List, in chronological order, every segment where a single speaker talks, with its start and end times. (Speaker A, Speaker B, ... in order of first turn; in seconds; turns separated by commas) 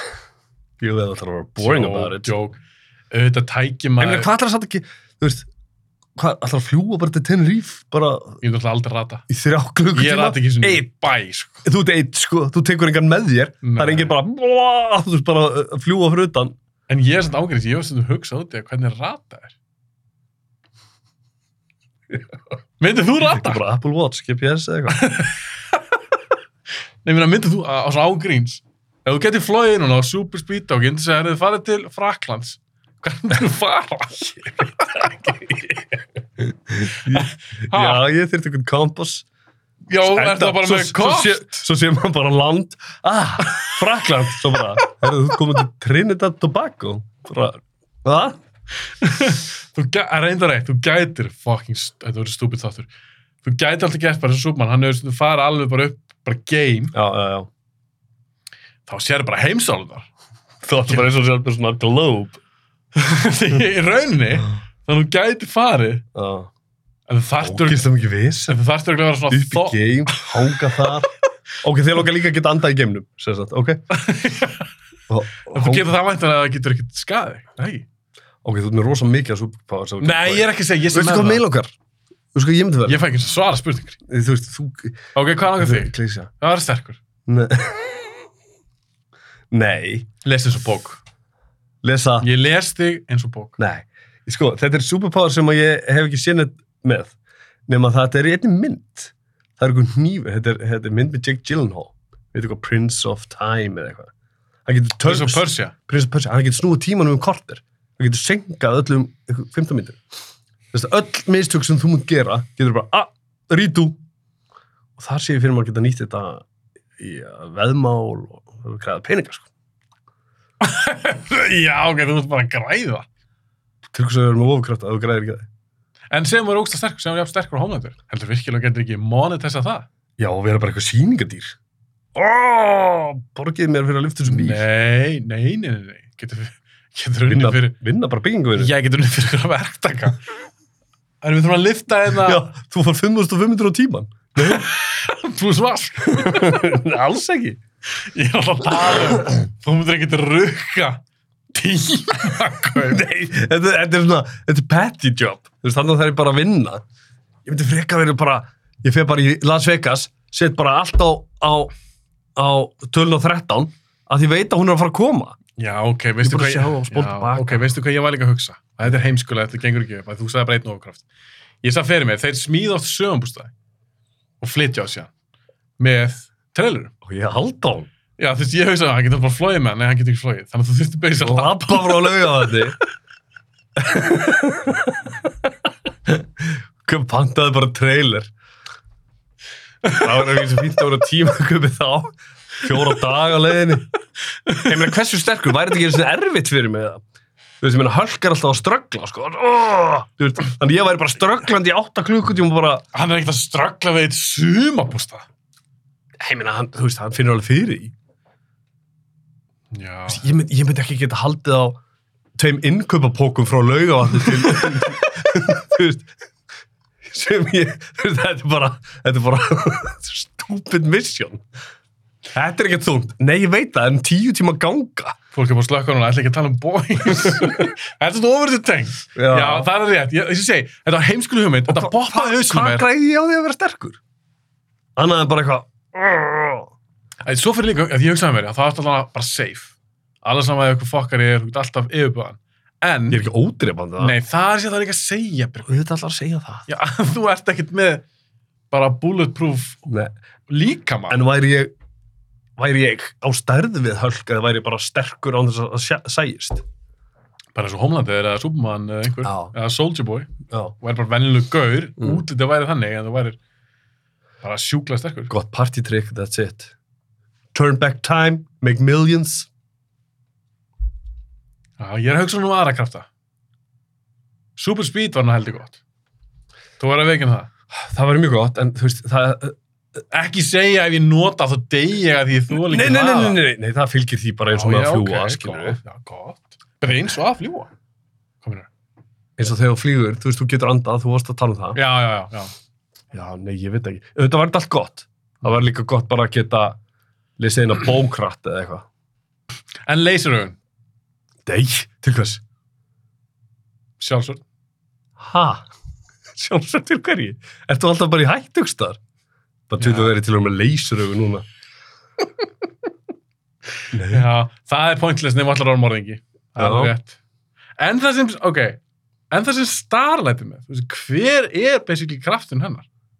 Speaker A: 0.8-2.3, Speaker B: 1.6-2.6, Speaker B: 3.1-4.3, Speaker A: 4.0-5.5, Speaker A: 6.2-8.4, Speaker B: 8.4-9.2, Speaker A: 9.3-10.8, Speaker B: 9.9-11.6, Speaker A: 11.6-16.6, Speaker B: 13.6-14.1, Speaker B: 16.9-19.6, Speaker B: 22.8-23.6, Speaker A: 23.2-25.0, Speaker B: 24.9-25.5, Speaker B: 27.0-35.4, Speaker A: 34.9-39.2, Speaker B: 36.9-38.0, Speaker B: 39.9-41.6, Speaker A: 40.0-48.4, Speaker B: 43.4-43.8, Speaker B: 48.8-52.9, Speaker B: 53.4-56.9, Speaker A: 56.9-57.5, Speaker B: 58.9-60.1, Speaker A: 60.6-62.4, Speaker B: 62.9-66.0, Speaker A: 66.1-66.5, Speaker B: 67.1-67.9, Speaker A: 67.4-68.6, Speaker B: 68.5-70.9, Speaker A: 69.3-71.1, Speaker A: 71.6-73.8, Speaker B: 73.9-74.7, Speaker A: 75.1-75.9, Speaker B: 75.5-77.8, Speaker A: 78.4-81.7, Speaker B: 80.0-81.4, Speaker A: 82.3-83.0, Speaker B: 82.8-84.0, Speaker A: 84.1-86.3, Speaker B: 85.1-87.0, Speaker A: 87.3-88.2, Speaker A: 89.5-90.1, Speaker B: 90.2-91.0, Speaker A: 91.8-92.3, Speaker B: 92.2-93.6, Speaker A: 93.6-97.1, Speaker A: 97.7-104.1, Speaker A: 104.7-110.0, Speaker B: 105.0-105.7, Speaker A: 110.7-114.0, Speaker A: 115.0-116.4, Speaker A: 117.0-119.5, Speaker B: 120.6-123.1, Speaker A: 123.9-125.5, Speaker B: 126.1-129.9, Speaker A: 130.2-131.6, Speaker A: 132.1-134.6, Speaker B: 134.2-137.8, Speaker A: 137.2-138.7, Speaker B: 138.6-140.2, Speaker B: 141.2-142.4, Speaker A: 142.2-144.7, Speaker B: 144.4-146.8, Speaker A: 146.1-147.6, Speaker B: 148.0-151.0, Speaker A: 148.9-149.2, Speaker B: 151.5-153.0, Speaker A: 152.8-156.8, Speaker A: 157.4-161.7, Speaker A: 162.3-165.4, Speaker B: 165.6-171.0, Speaker A: 166.2-167.7, Speaker B: 171.6-173.5, Speaker B: 174.4-175.1, Speaker B: 175.8-176.9, Speaker A: 177.0-177.9, Speaker B: 178.2-182.5, Speaker A: 181.2-182.8, Speaker A: 183.8-185.5, Speaker A: 186.1-188.3, Speaker A: 189.9-193.8, Speaker B: 194.4-194.7, Speaker A: 194.6-197.0, Speaker A: 197.6-202.8, Speaker B: 202.9-205.2, Speaker A: 206.2-207.9, Speaker B: 209.7-210.3, Speaker A: 210.1-211.8, Speaker A: 212.3-216.1, Speaker A: 217.0-221.4, Speaker A: 222.3-225.2, Speaker B: 225.3-232.8, Speaker A: 227.2-227.7, Speaker A: 229.1-229.7, Speaker A: 231.7-234.0, Speaker A: 234.9-236.7, Speaker B: 237.2-243.2, Speaker A: 243.1-244.2, Speaker B: 244.0-245.8, Speaker A: 245.7-246.7, Speaker B: 246.7-248.0, Speaker B: 248.7-249.8, Speaker A: 249.9-250.1, Speaker B: 250.5-251.2, Speaker A: 251.1-251.7, Speaker A: 252.6-256.6, Speaker B: 257.5-263.4, Speaker A: 259.2-259.5, Speaker A: 260.5-260.7, Speaker B: 264.4-265.3, Speaker A: 265.3-266.7, Speaker A: 267.5-269.5, Speaker B: 271.8-273.1, Speaker B: 274.6-275.8, Speaker B: 276.8-277.5, Speaker A: 277.7-279.6, Speaker B: 280.1-283.4, Speaker A: 282.6-285.8, Speaker B: 284.5-287.7, Speaker B: 288.4-288.7, Speaker A: 289.4-291.8, Speaker B: 291.7-292.5, Speaker A: 293.1-296.8, Speaker A: 297.4-298.9, Speaker B: 299.9-300.6, Speaker A: 301.4-302.4, Speaker B: 304.0-304.4, Speaker A: 305.2-305.7, Speaker A: 306.3-309.0, Speaker A: 309.7-311.4, Speaker B: 309.8-310.1, Speaker A: 313.9-314.3, Speaker B: 314.0-317.2, Speaker A: 316.6-316.9, Speaker B: 317.8-318.8, Speaker B: 319.3-322.9